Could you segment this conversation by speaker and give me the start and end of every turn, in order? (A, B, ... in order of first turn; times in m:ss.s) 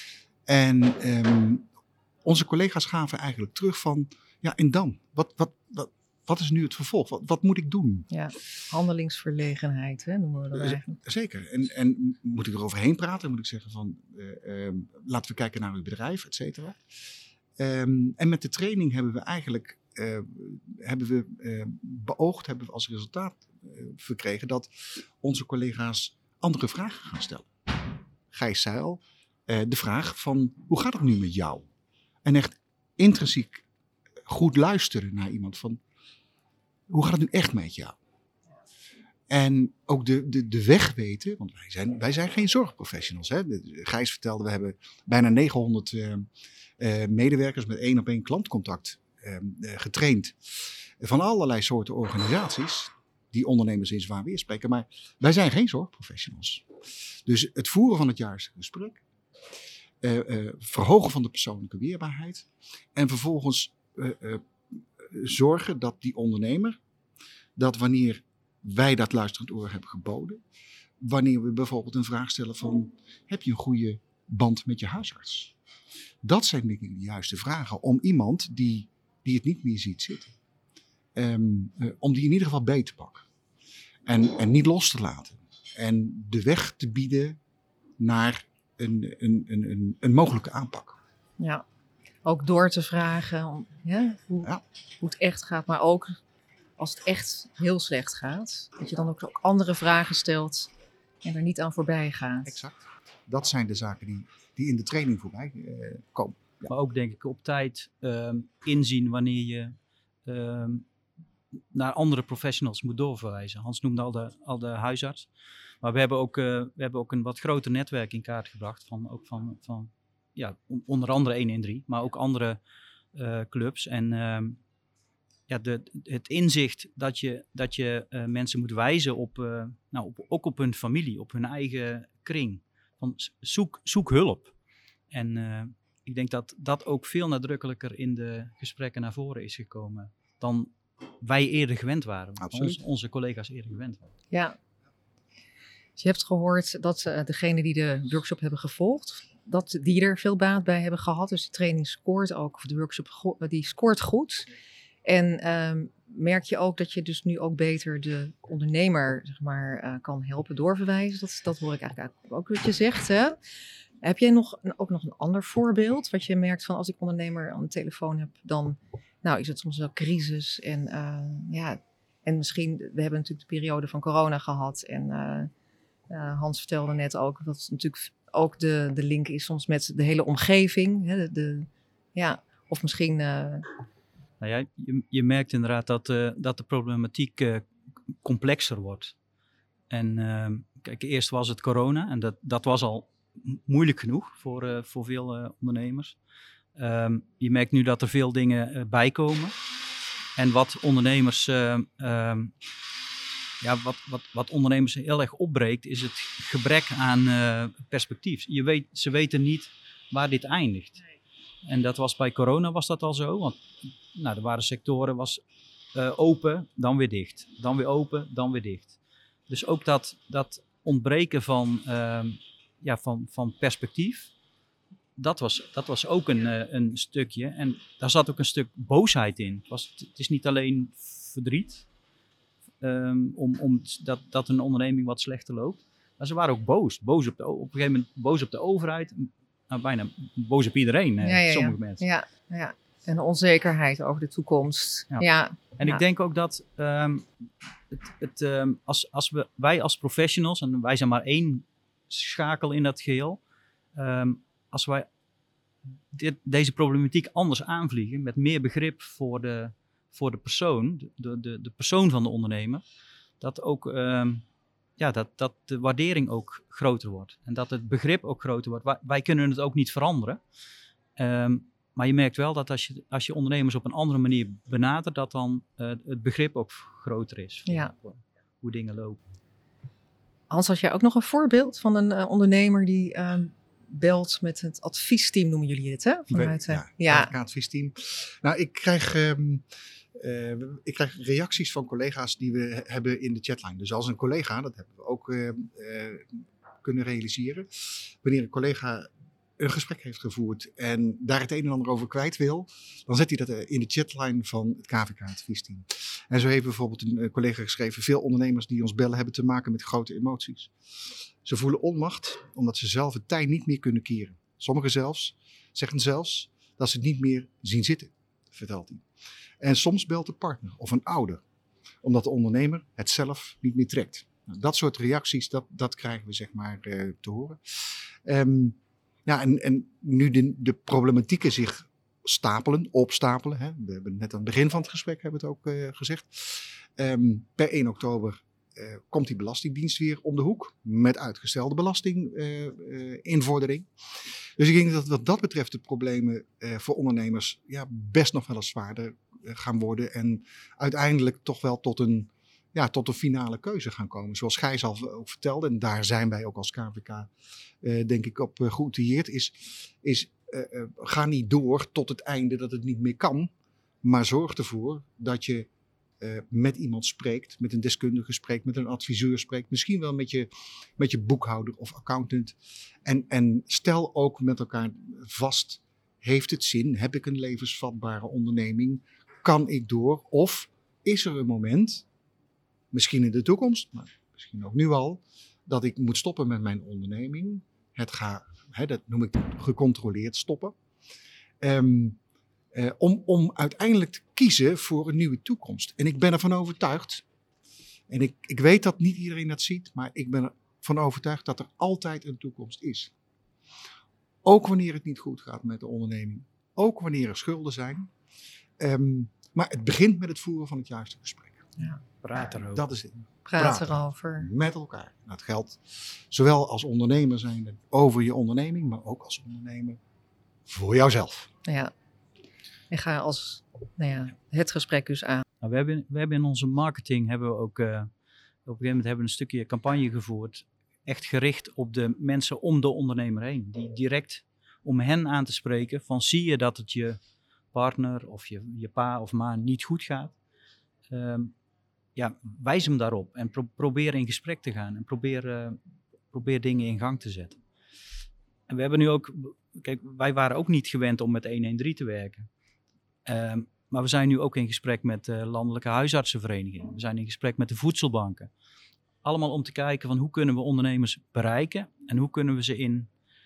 0:00.5-0:01.7 A
0:02.2-0:08.1 A
0:08.1-0:11.0 B
0:10.5-0:16.8 A
0:17.6-0:27.5 A
0:28.3-0:31.7 A
0:32.2-0:33.6 A
0:34.2-0:35.8 A
0:36.9-0:38.0 A
0:39.3-0:46.2 A
0:46.8-0:56.7 A
0:57.2-0:59.0 A
1:00.0-1:04.4 A
1:05.0-1:06.8 A
1:07.6-1:10.4 A
1:11.0-1:15.5 A
1:16.2-1:20.3 A
1:21.2-1:23.2 A
1:24.0-1:27.4 A
1:28.0-1:31.0 A
1:31.4-1:31.6 B
1:32.2-1:36.2 B
1:36.8-1:40.7 B
1:41.2-1:42.6 B
1:42.4-1:46.7 A
1:46.7-1:49.7 C
1:50.2-1:50.8 C
1:51.7-1:55.3 C
1:55.8-2:02.6 C
2:03.1-2:04.6 C
2:05.5-2:14.5 C
2:15.1-2:24.0 C
2:22.4-2:22.8 A
2:24.3-2:24.6 B
2:26.0-2:34.5 B
2:35.0-2:43.4 B
2:44.0-2:55.5 B
2:56.1-3:03.7 B
3:04.4-3:07.6 C
3:08.2-3:09.1 C
3:09.9-3:16.2 C
3:16.8-3:19.5 C
3:20.4-3:22.5 C
3:23.6-3:31.1 C
3:31.6-3:33.6 C
3:34.1-3:35.4 C
3:35.9-3:38.9 C
3:39.5-3:44.3 C
3:45.2-3:51.9 C
3:52.8-4:02.0 C
4:01.2-4:06.0 B
4:05.8-4:07.3 C
4:07.9-4:13.4 C
4:13.9-4:15.0 C
4:16.1-4:22.8 C
4:23.4-4:24.4 C
4:25.0-4:30.4 C
4:31.2-4:39.2 C
4:37.7-4:37.9 B
4:40.5-4:47.3 B
4:46.3-4:49.6 A
4:50.1-4:56.3 A
4:56.8-5:10.7 A
5:11.4-5:19.0 A
5:19.6-5:21.4 A
5:22.0-5:43.9 A
5:44.6-5:57.3 A
5:57.8-6:03.5 A
6:04.0-6:05.7 A
6:06.2-6:22.0 A
6:22.9-6:30.7 A
6:31.6-6:32.2 A
6:32.7-6:37.2 A
6:38.1-6:43.1 A
6:44.4-6:48.1 A
6:48.8-6:51.7 A
6:52.2-6:52.9 C
6:52.7-7:00.0 A
6:53.4-6:54.5 B
7:00.7-7:01.5 A
7:01.6-7:01.9 B
7:02.9-7:05.4 B
7:05.6-7:08.1 C
7:08.6-7:17.2 C
7:17.7-7:20.3 C
7:21.1-7:21.5 C
7:22.2-7:25.8 C
7:26.3-7:27.6 C
7:28.7-7:32.5 C
7:33.2-7:38.5 C
7:39.2-7:43.1 C